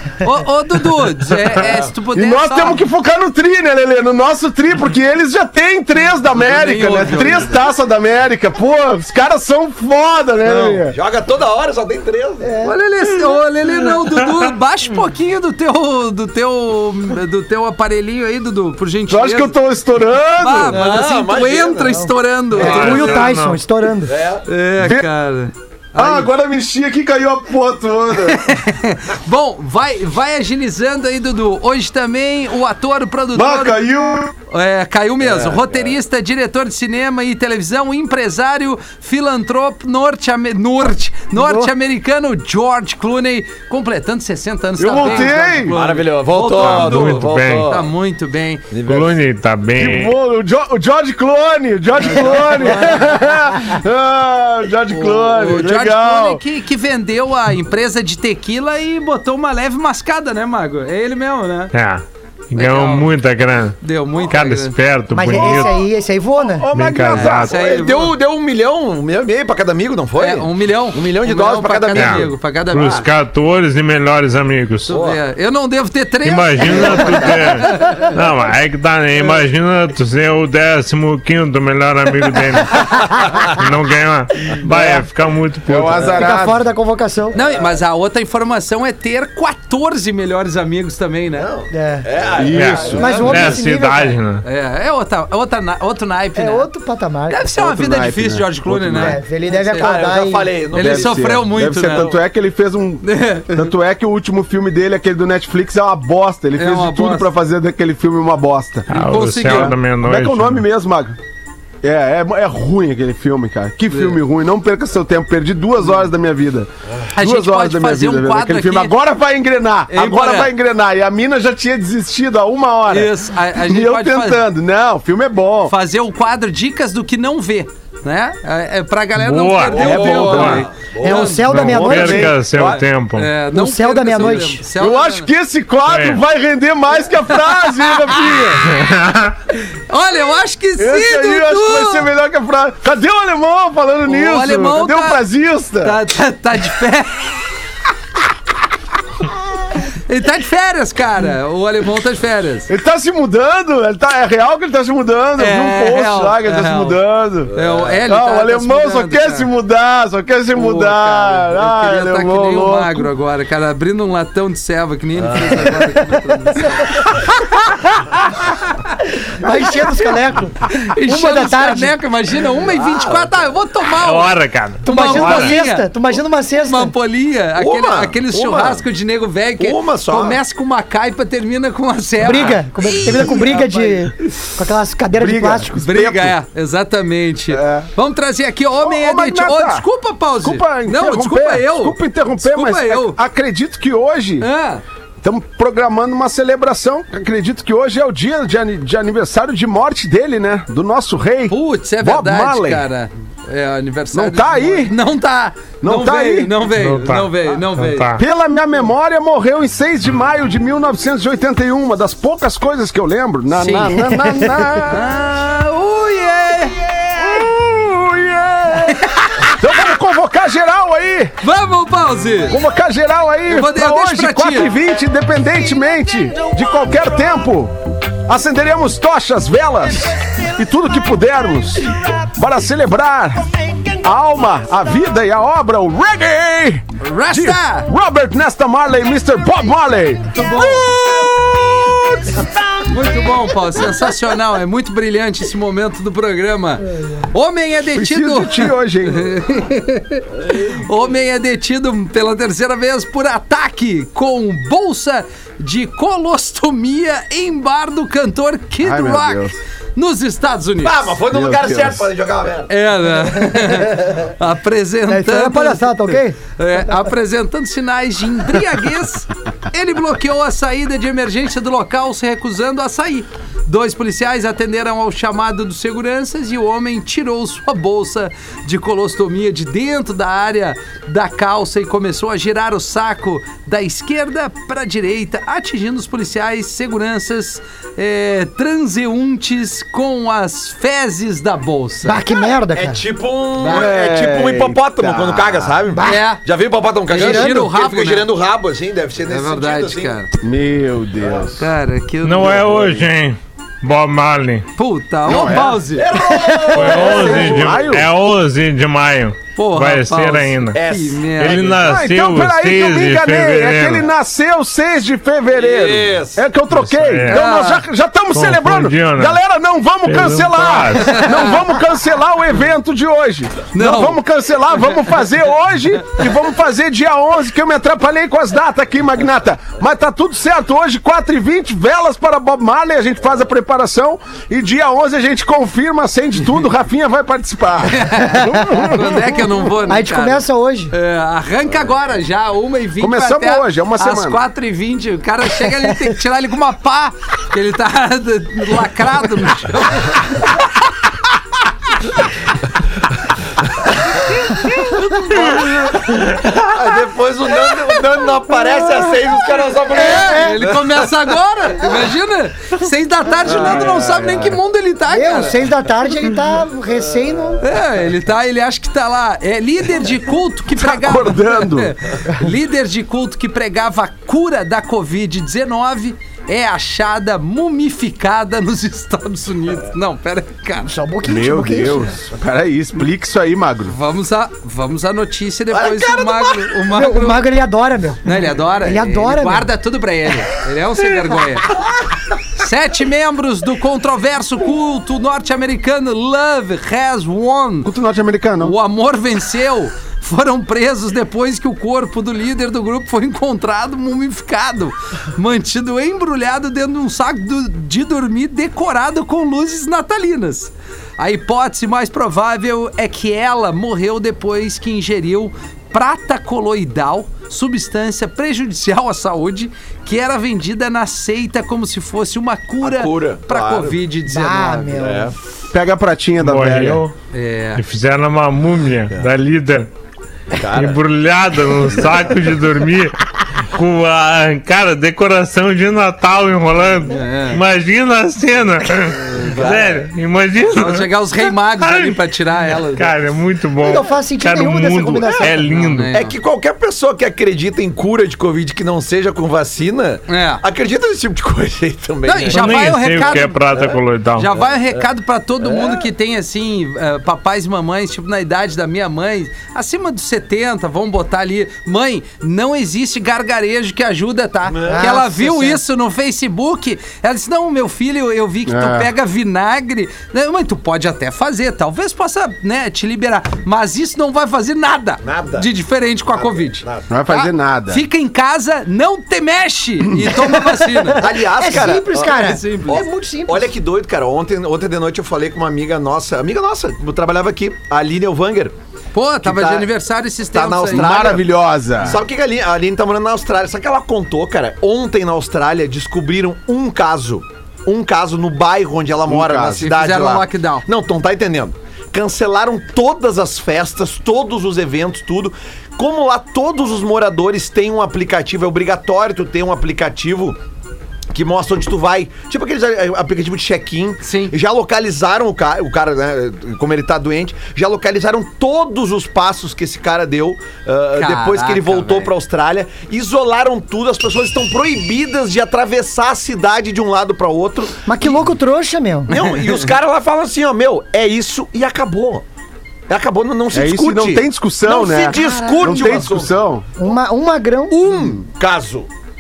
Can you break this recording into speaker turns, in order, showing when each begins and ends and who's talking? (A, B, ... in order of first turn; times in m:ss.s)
0:00.2-0:02.8 A
0:02.1-0:11.0 B
0:06.3-0:07.6 A
0:10.5-0:10.8 A
0:10.9-0:12.5 C
0:12.4-0:12.8 D
0:12.6-0:19.6 A
0:19.1-0:20.8 B
0:20.4-0:23.3 A
0:20.7-0:22.1 C
0:22.5-0:24.1 D
0:22.5-0:23.6 E
0:24.0-0:24.4 C
0:24.4-0:26.3 A
0:24.8-0:25.0 B
0:25.9-0:28.4 B
0:28.2-0:33.8 A
0:33.3-0:34.3 B
0:34.5-0:48.7 A
0:35.2-0:35.9 C
0:41.3-0:41.7 D
0:44.8-0:45.7 B
0:45.0-0:47.8 C
0:46.4-0:47.8 E
0:48.7-0:49.2 C
0:48.8-0:50.1 E
0:49.7-0:56.4 B
0:52.0-0:53.1 A
0:54.9-1:01.7 A
1:01.7-1:05.8 E
1:02.6-1:03.1 A
1:03.8-1:04.8 A
1:05.1-1:06.7 D
1:06.4-1:07.5 B
1:06.7-1:07.5 E
1:07.1-1:08.1 A
1:07.2-1:12.3 C
1:10.2-1:13.0 A
1:11.9-1:15.0 E
1:14.9-1:18.1 A
1:14.9-1:15.2 C
1:16.2-1:26.1 E
1:25.7-1:26.6 B
1:26.1-1:27.3 D
1:27.3-1:31.5 A
1:31.4-1:33.4 C
1:31.7-1:32.1 D
1:32.3-1:33.4 B
1:32.5-1:34.4 E
1:32.9-1:33.6 A
1:32.9-1:34.2 D
1:34.4-1:36.7 A
1:36.4-1:37.4 D
1:37.3-1:40.0 A
1:37.6-1:39.2 B
1:38.9-1:40.5 D
1:39.5-1:41.2 C
1:40.7-1:42.1 A
1:40.7-1:48.9 B
1:41.8-1:42.1 C
1:43.0-1:43.7 A
1:46.6-1:47.3 A
1:48.9-1:50.6 E
1:48.9-1:49.8 A
1:49.4-1:51.2 B
1:51.8-2:05.7 B
1:53.9-1:54.2 A
1:57.1-1:58.9 A
1:59.9-2:00.5 A
2:02.9-2:04.4 A
2:05.7-2:15.3 A
2:09.2-2:10.6 E
2:09.7-2:11.3 C
2:09.8-2:10.6 B
2:11.0-2:12.4 D
2:11.3-2:13.3 E
2:11.6-2:12.7 B
2:13.5-2:14.6 D
2:14.8-2:18.7 B
2:15.9-2:16.2 E
2:17.3-2:18.6 A
2:18.7-2:19.4 E
2:19.9-2:22.1 A
2:20.8-2:26.0 B
2:24.0-2:25.2 A
2:25.8-2:27.4 A
2:29.9-2:32.7 A
2:32.7-2:43.1 B
2:35.4-2:37.0 A
2:37.5-2:39.5 A
2:37.5-2:38.0 C
2:40.5-2:49.0 A
2:49.3-2:51.9 D
2:49.7-2:50.0 A
2:50.7-2:55.9 A
2:52.8-2:53.2 C
2:54.0-2:55.6 E
2:54.8-2:56.9 D
2:56.6-3:04.1 A
2:57.6-2:58.8 C
2:59.6-3:00.4 C
3:02.2-3:05.7 D
3:05.1-3:06.3 B
3:05.7-3:13.2 A
3:07.5-3:07.9 B
3:08.8-3:09.8 B
3:10.4-3:14.5 B
3:14.4-3:14.8 A
3:15.2-3:22.8 B
3:21.5-3:28.2 A
3:24.1-3:24.9 B
3:25.8-3:26.5 B
3:26.7-3:28.2 E
3:28.2-3:35.1 B
3:33.5-3:36.9 A
3:37.1-3:41.3 B
3:38.9-3:39.5 A
3:41.4-3:42.6 A
3:42.5-4:02.5 B
3:43.5-3:44.7 A
3:57.0-3:57.9 A
4:00.3-4:00.9 A
4:02.9-4:21.2 A
4:07.9-4:09.3 B
4:18.8-4:19.6 B
4:20.8-4:22.7 C
4:21.3-4:22.0 B
4:22.7-4:52.2 A
4:25.1-4:26.4 D
4:52.0-4:53.0 D
4:52.7-5:00.2 C
4:53.6-4:53.9 A
4:53.6-4:55.8 B
4:55.9-4:56.2 D
4:56.0-4:56.4 A
4:57.1-4:58.3 A
4:57.1-4:57.7 D
4:59.3-5:00.3 A
5:00.4-5:01.7 B
5:01.6-5:02.7 A
5:02.2-5:04.7 E
5:02.6-5:03.0 B
5:04.8-5:06.1 A
5:05.2-5:05.8 B
5:05.3-5:07.8 C
5:06.3-5:07.2 D
5:06.7-5:10.8 E
5:07.2-5:08.1 B
5:09.6-5:11.8 A
5:10.7-5:11.8 C
5:11.3-5:14.0 E
5:11.7-5:39.4 B
5:15.5-5:16.4 C
5:16.7-5:17.4 E
5:17.2-5:17.8 A
5:18.3-5:19.4 E
5:20.0-5:21.3 E
5:21.0-5:21.6 A
5:23.7-5:24.2 A
5:37.8-5:50.6 A
5:38.3-5:39.2 D
5:39.8-5:40.9 D
5:43.0-5:44.4 B
5:55.1-5:55.7 A
5:56.6-6:01.1 C
5:59.9-6:05.6 A
5:59.9-6:00.6 D
6:05.1-6:07.6 D
6:07.6-6:20.9 A
6:10.7-6:11.9 B
6:20.8-6:22.1 D
6:21.2-6:24.0 B
6:23.9-6:27.4 A
6:25.7-6:26.8 C
6:26.9-6:29.7 D
6:28.2-6:31.7 A
6:32.5-6:37.9 A
6:37.8-6:38.7 B
6:38.6-7:05.1 A
7:02.8-7:04.0 C
7:04.2-7:05.3 D
7:04.9-7:05.3 C
7:05.7-7:07.1 B
7:06.4-7:07.1 E
7:07.3-7:07.8 A
7:07.8-7:09.9 E
7:10.5-7:11.0 C
7:10.6-7:22.2 E
7:17.1-7:17.6 A
7:19.4-7:20.0 C
7:20.6-7:23.1 A
7:23.0-7:26.1 E
7:23.8-7:25.8 D
7:25.6-7:26.3 A
7:26.1-7:34.0 C
7:30.3-7:30.6 A
7:32.2-7:33.7 A
7:32.4-7:34.5 E
7:34.4-8:01.2 A
7:34.5-7:35.0 C
7:35.6-7:36.1 C
7:44.7-7:45.2 C
7:44.8-7:45.8 D
7:48.6-7:49.1 B
7:55.2-7:55.7 C
7:56.3-7:57.1 C
7:57.1-7:58.0 B
8:00.3-8:03.7 D
8:01.2-8:08.7 C
8:02.1-8:03.0 A
8:09.1-8:11.3 A
8:09.4-8:09.9 C
8:10.5-8:30.6 C
8:10.9-8:12.2 B
8:19.3-8:19.9 B
8:19.8-8:20.8 A
8:31.3-8:48.4 C
8:34.2-8:34.5 A
8:41.2-8:42.3 A
8:48.0-8:49.3 D
8:49.3-8:52.4 C
8:49.3-8:49.9 A
8:53.1-8:56.5 C
8:53.7-8:56.9 B
8:55.3-8:56.2 D
8:57.0-8:58.3 D
8:57.9-8:59.1 C